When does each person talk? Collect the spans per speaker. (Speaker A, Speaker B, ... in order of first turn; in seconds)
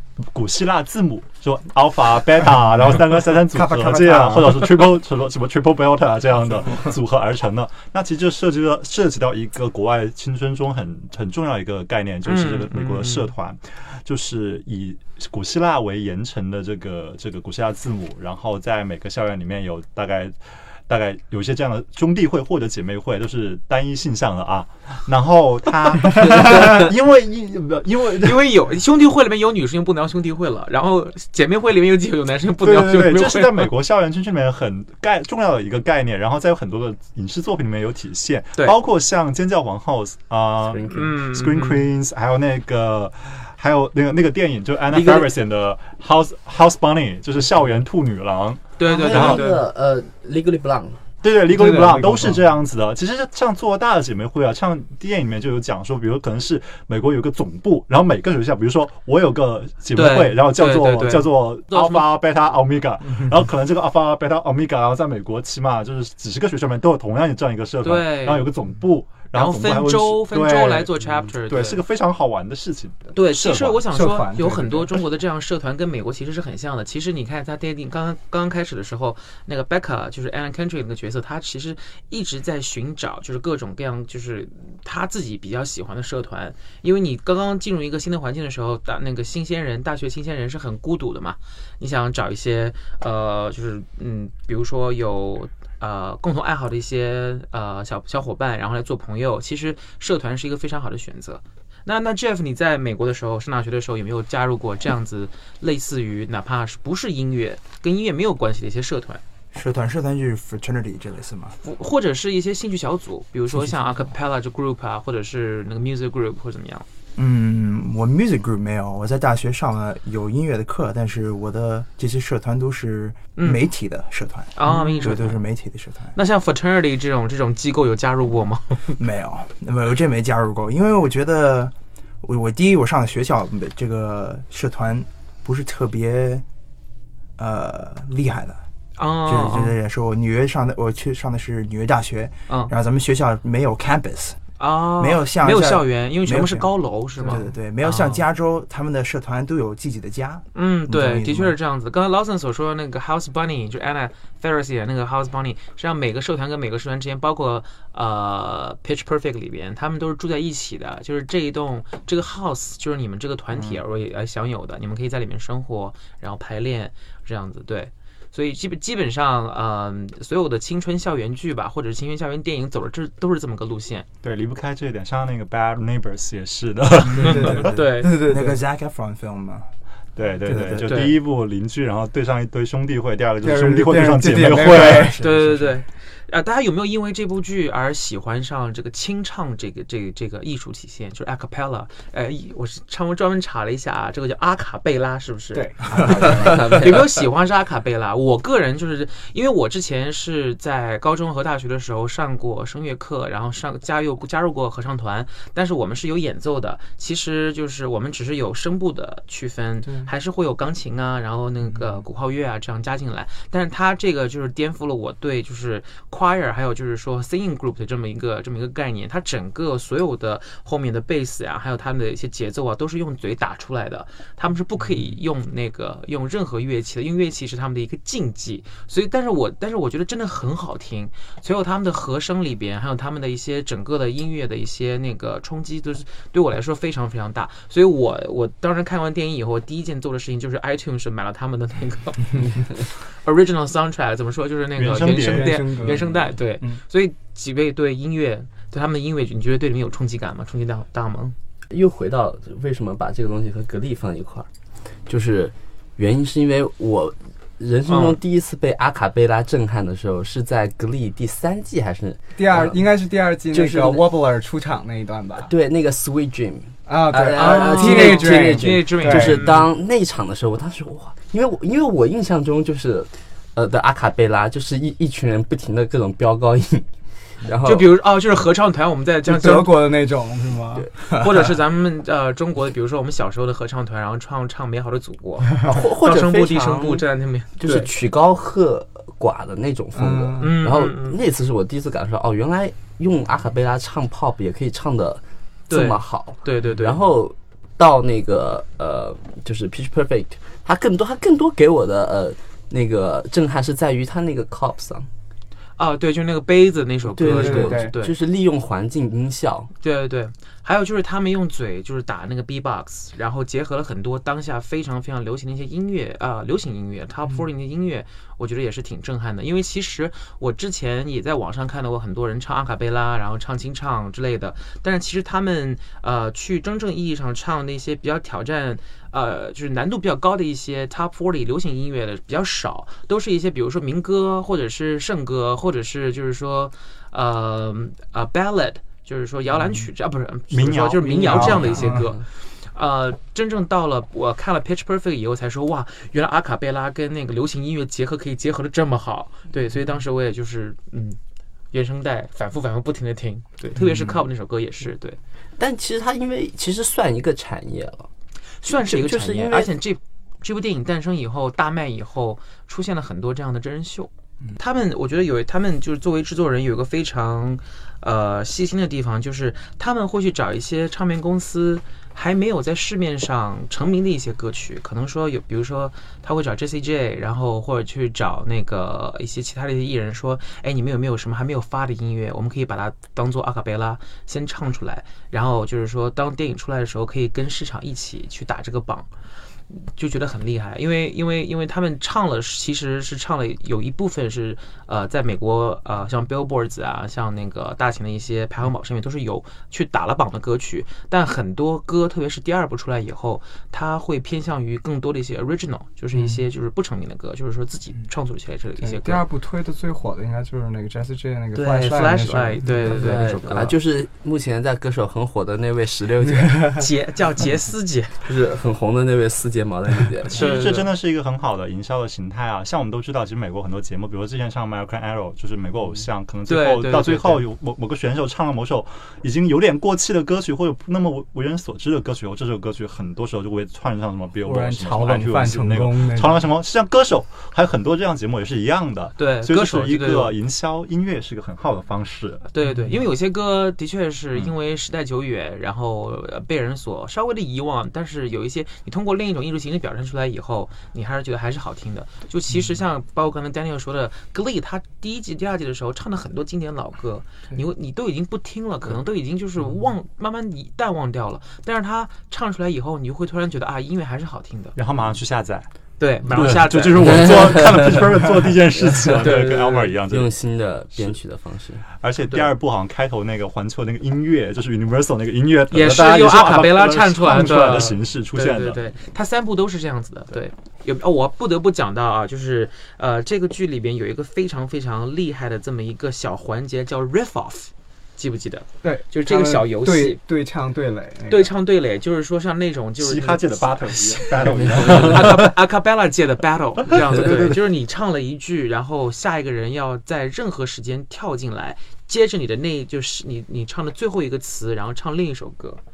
Speaker A: 0.2-28.5, 32.6-49.5, 51.2-73.8, 163.5-163.8, 174.2-177.8, 180.2-185.2, 244.8-246.0, 340.5-342.0, 420.3-442.4, 464.8-465.7, 466.2-470.3, 472.0-478.9, 493.0-495.5, 496.9-497.4
Speaker B: 3.5-4.9, 6.6-6.9, 51.5-52.4, 73.9-75.0, 147.2-147.4, 177.1-178.6, 183.4-185.2, 195.5-196.8, 209.8-210.1, 245.0-246.8, 262.4-265.5, 266.9-269.5, 279.2-281.5, 289.9-290.6, 307.2-307.9, 341.2-342.0, 406.1-406.4, 408.8-413.2, 416.2-416.8, 434.4-436.4, 442.6-442.9, 488.8-491.5
Speaker C: 12.2-13.3, 28.2-33.7, 40.9-41.9, 48.8-49.6, 59.9-62.1, 67.8-68.5, 69.3-71.8, 73.1-109.2, 111.6-116.8, 123.3-123.7, 124.5-125.4, 126.1-129.0, 139.0-139.8, 144.6-148.2, 150.5-174.1, 177.3-178.2, 185.2-251.3, 257.9-258.2, 267.4-269.6, 277.6-279.9, 281.1-287.9, 290.4-291.2, 295.7-297.0, 305.8-308.1, 309.8-351.2, 351.7-355.2, 358.6-389.1, 389.7-409.2, 411.5-413.8, 416.8-418.2, 420.3-420.9, 426.5-427.4, 439.2-440.3, 442.5-464.8, 466.0-467.9, 469.2-469.9, 472.2-472.5, 475.7-490.2, 491.3-505.8
Speaker D: 26.1-26.9, 40.6-41.1, 44.9-45.3, 48.8-51.0, 196.4-196.8, 251.7-254.5, 255.1-262.9, 263.5-264.1, 265.4-276.9, 277.4-277.9, 285.6-287.0, 287.6-305.1, 307.1-309.7, 355.6-358.1, 358.6-359.7, 412.8-416.7, 418.2-420.6, 469.1-469.5, 470.1-471.8, 494.6-495.2
Speaker E: 109.5-111.6, 113.5-114.1, 117.2-126.2, 129.0-136.4, 137.4-138.6, 139.2-144.4, 145.0-151.5, 177.1-177.6, 178.2-179.7, 180.4-181.2, 184.6-185.8